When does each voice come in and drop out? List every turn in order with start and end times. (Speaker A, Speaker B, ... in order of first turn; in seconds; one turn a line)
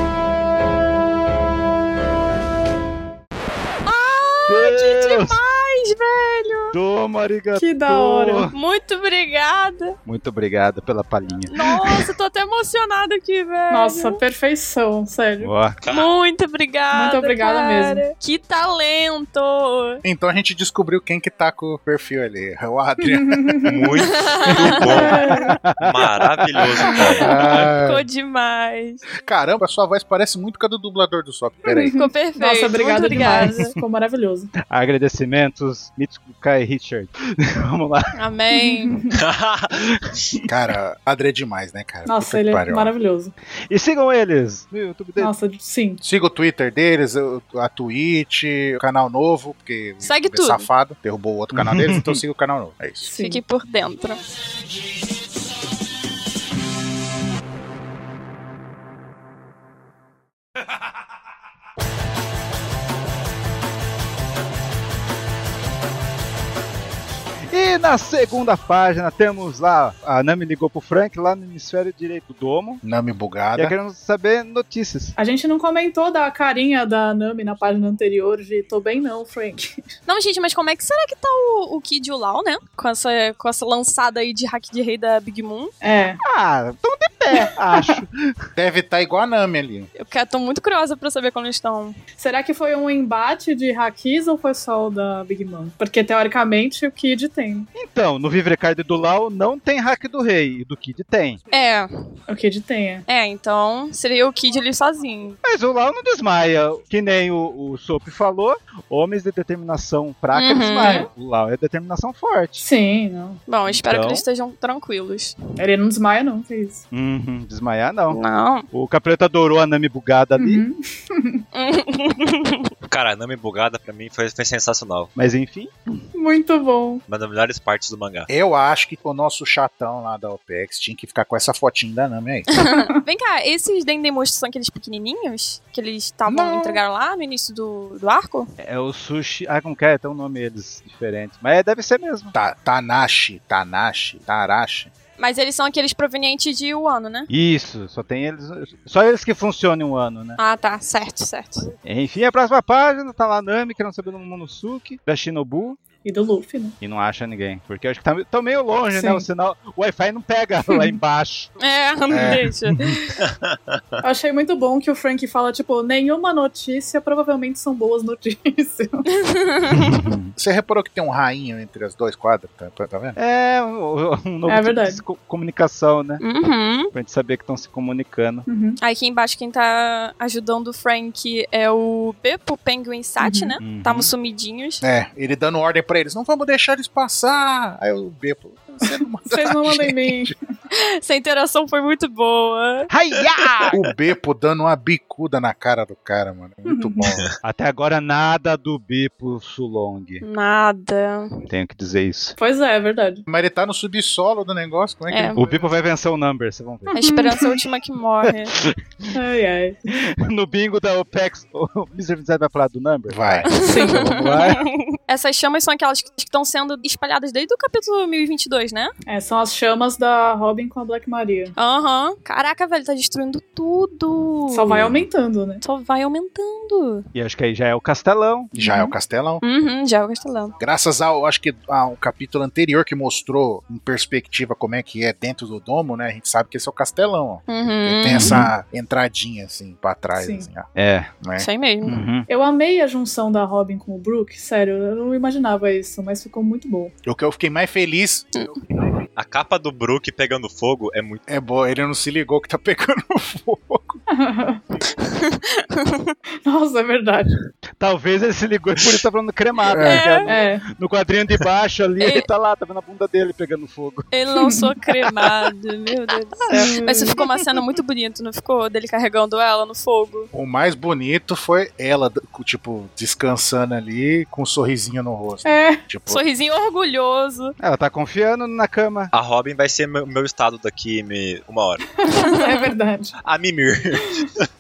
Speaker A: 3.9-6.8
Speaker B: 4.5-5.4
Speaker B: 6.7-8.5
Speaker C: 7.6-8.5
Speaker A: 8.5-10.0
Speaker B: 10.1-12.0
Speaker A: 11.5-14.2
Speaker C: 13.7-15.5
Speaker B: 15.4-15.8
Speaker D: 15.8-16.1
Speaker A: 15.9-20.0
Speaker C: 16.9-18.0
Speaker E: 20.0-23.8
Speaker C: 23.1-25.6
Speaker D: 23.6-27.4
Speaker A: 24.1-25.3
Speaker B: 25.4-26.9
Speaker C: 26.9-27.3
Speaker E: 27.1-28.1
Speaker A: 27.2-29.1
Speaker E: 29.2-31.9
Speaker C: 31.7-34.5
Speaker A: 31.9-33.7
Speaker B: 33.1-33.6
Speaker B: 34.6-38.2
Speaker A: 38.1-39.0
Speaker C: 38.6-39.2
Speaker D: 39.1-39.8
Speaker B: 39.8-40.5
Speaker E: 40.5-42.9
Speaker C: 42.1-43.3
Speaker B: 43.7-45.3
Speaker C: 45.2-46.0
Speaker E: 46.0-53.1
Speaker A: 50.0-50.7
Speaker B: 51.5-52.2
Speaker C: 53.1-53.4
Speaker A: 53.1-54.2
Speaker B: 67.5-72.8
Speaker E: 72.8-73.8
Speaker B: 73.6-75.2
Speaker C: 75.2-79.8
Speaker A: 80.1-85.7
Speaker C: 85.8-86.2
Speaker B: 86.2-88.3
Speaker C: 87.3-88.0
Speaker E: 88.6-89.9
Speaker A: 90.0-92.0
Speaker C: 92.2-97.7
Speaker B: 97.8-101.4
Speaker A: 101.5-101.9
Speaker C: 102.3-103.0
Speaker A: 103.1-105.4
Speaker B: 105.4-112.7
Speaker A: 110.3-111.1
Speaker C: 110.8-111.1
Speaker C: 112.6-113.4
Speaker A: 113.5-115.3
Speaker B: 113.7-114.2
Speaker C: 115.6-116.8
Speaker B: 116.9-118.2
Speaker A: 118.1-118.7
Speaker B: 118.7-120.6
Speaker C: 120.4-121.4
Speaker A: 121.5-122.7
Speaker D: 122.9-125.1
Speaker B: 125.2-126.0
Speaker C: 126.1-127.0
Speaker D: 127.1-128.3
Speaker E: 128.3-132.5
Speaker A: 132.5-138.5
Speaker E: 136.3-136.8
Speaker B: 138.6-142.3
Speaker E: 142.3-144.9
Speaker A: 145.2-147.3
Speaker B: 147.3-150.4
Speaker A: 150.4-151.7
Speaker B: 151.8-155.8
Speaker C: 156.0-156.8
Speaker B: 156.8-161.5
Speaker C: 158.9-159.3
Speaker C: 160.7-161.0
Speaker A: 161.6-163.2
Speaker E: 162.1-162.5
Speaker D: 163.2-163.8
Speaker C: 164.0-169.1
Speaker A: 169.1-170.1
Speaker B: 169.7-170.3
Speaker E: 170.4-173.2
Speaker B: 173.2-176.2
Speaker C: 174.5-175.0
Speaker A: 176.2-176.9
Speaker B: 176.9-178.4
Speaker C: 178.5-178.8
Speaker A: 178.8-184.8
Speaker C: 183.2-183.6
Speaker B: 183.6-184.1
Speaker E: 184.8-190.3
Speaker C: 189.3-190.4
Speaker A: 190.7-192.9
Speaker B: 192.9-193.7
Speaker E: 193.7-197.3
Speaker C: 196.7-197.2
Speaker B: 197.4-200.2
Speaker A: 200.2-201.4
Speaker B: 201.5-202.4
Speaker C: 202.4-203.2
Speaker E: 203.3-205.7
Speaker A: 205.1-205.4
Speaker B: 205.3-207.0
Speaker A: 206.9-208.5
Speaker C: 207.0-207.6
Speaker B: 208.2-209.2
Speaker C: 209.1-209.8
Speaker B: 209.9-214.7
Speaker E: 213.1-213.5
Speaker A: 213.5-218.9
Speaker C: 213.7-214.1
Speaker C: 219.1-221.5
Speaker A: 221.6-224.8
Speaker C: 224.5-225.6
Speaker E: 224.7-225.0
Speaker A: 225.6-227.1
Speaker B: 227.1-228.5
Speaker E: 228.5-229.4
Speaker C: 228.6-228.9
Speaker A: 229.4-230.6
Speaker E: 230.6-240.7
Speaker A: 237.5-238.4
Speaker B: 238.1-238.5
Speaker C: 240.2-240.5
Speaker B: 240.8-241.1
Speaker E: 241.2-241.5
Speaker A: 241.4-242.0
Speaker B: 241.8-242.3
Speaker C: 242.3-246.9
Speaker E: 247.1-248.9
Speaker D: 249.2-251.2
Speaker E: 251.3-254.0
Speaker C: 254.1-254.6
Speaker A: 255.0-256.1
Speaker C: 256.4-257.4
Speaker B: 257.8-264.1
Speaker E: 259.7-260.1
Speaker A: 259.8-260.3
Speaker C: 260.3-260.6
Speaker A: 262.0-262.3
Speaker A: 264.1-270.3
Speaker C: 264.4-264.7
Speaker C: 266.5-267.2
Speaker E: 270.3-276.2
Speaker C: 275.4-275.8
Speaker A: 276.1-277.5
Speaker B: 277.6-279.1
Speaker D: 279.1-282.0
Speaker C: 282.0-283.1
Speaker A: 282.1-282.6
Speaker D: 283.2-284.5